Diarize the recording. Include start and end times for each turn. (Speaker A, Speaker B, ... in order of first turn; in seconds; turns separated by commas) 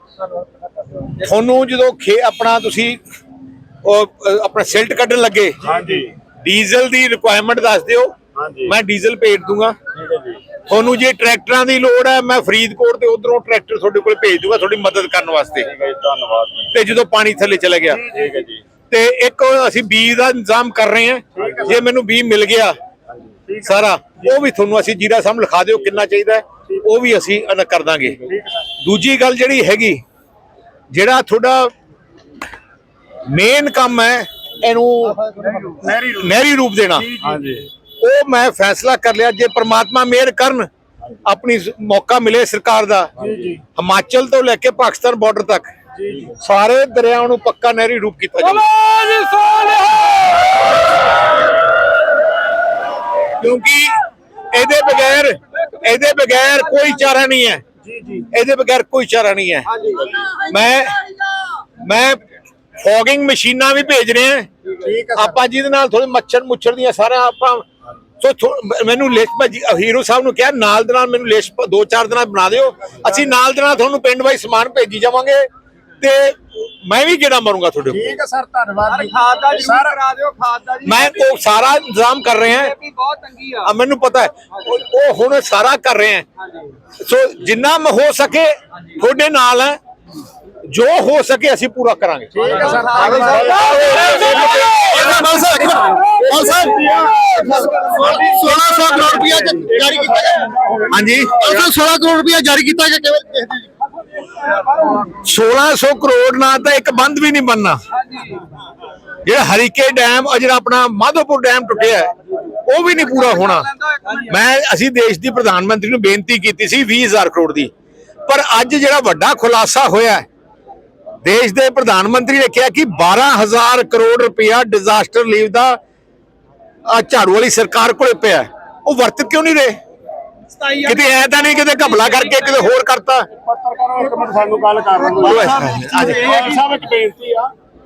Speaker A: 1.2-3.0, Speaker A: 3.8-5.6, Speaker B: 5.6-6.1, Speaker C: 5.7-6.0, Speaker A: 6.4-8.1, Speaker B: 8.3-8.7, Speaker A: 8.6-9.8, Speaker B: 9.9-10.4, Speaker A: 10.7-15.7, Speaker B: 15.7-16.7, Speaker A: 16.7-18.0, Speaker C: 17.9-18.3, Speaker B: 18.1-18.6, Speaker A: 18.9-22.7, Speaker C: 21.4-21.8, Speaker C: 23.5-24.1, Speaker A: 23.6-28.2, Speaker C: 28.3-28.6, Speaker A: 28.8-30.0, Speaker A: 30.9-31.7, Speaker A: 33.3-37.1, Speaker C: 35.3-36.3, Speaker C: 37.0-37.6, Speaker B: 37.2-37.6, Speaker A: 38.0-40.7, Speaker A: 41.2-43.1, Speaker C: 43.2-43.6, Speaker A: 43.8-45.7, Speaker C: 46.0-46.3, Speaker A: 46.3-48.7, Speaker D: 48.7-50.1, Speaker A: 53.4-54.0, Speaker A: 54.5-57.6, Speaker C: 57.8-58.3, Speaker A: 58.3-61.0, Speaker D: 59.7-60.1, Speaker A: 61.8-62.2, Speaker A: 62.8-64.5, Speaker C: 64.8-65.4, Speaker A: 65.2-67.6, Speaker A: 68.2-75.5, Speaker A: 76.0-78.2, Speaker C: 77.9-80.0, Speaker D: 78.9-81.3, Speaker A: 80.8-82.7, Speaker D: 82.5-83.7, Speaker A: 83.6-86.2, Speaker A: 87.0-89.8, Speaker A: 90.7-92.9, Speaker C: 92.3-93.8, Speaker D: 92.7-95.3, Speaker B: 93.2-94.9, Speaker A: 94.2-95.2, Speaker E: 94.9-100.5, Speaker C: 95.0-96.5, Speaker A: 96.5-96.8, Speaker C: 97.3-99.8, Speaker A: 98.1-99.6, Speaker B: 99.7-100.3, Speaker A: 100.9-103.4, Speaker A: 105.1-107.8, Speaker A: 109.2-112.1, Speaker A: 112.7-117.7, Speaker A: 118.3-120.2, Speaker A: 121.2-125.8, Speaker A: 126.9-129.8, Speaker A: 130.6-133.3, Speaker B: 133.4-137.5, Speaker A: 135.2-136.4, Speaker E: 135.8-136.3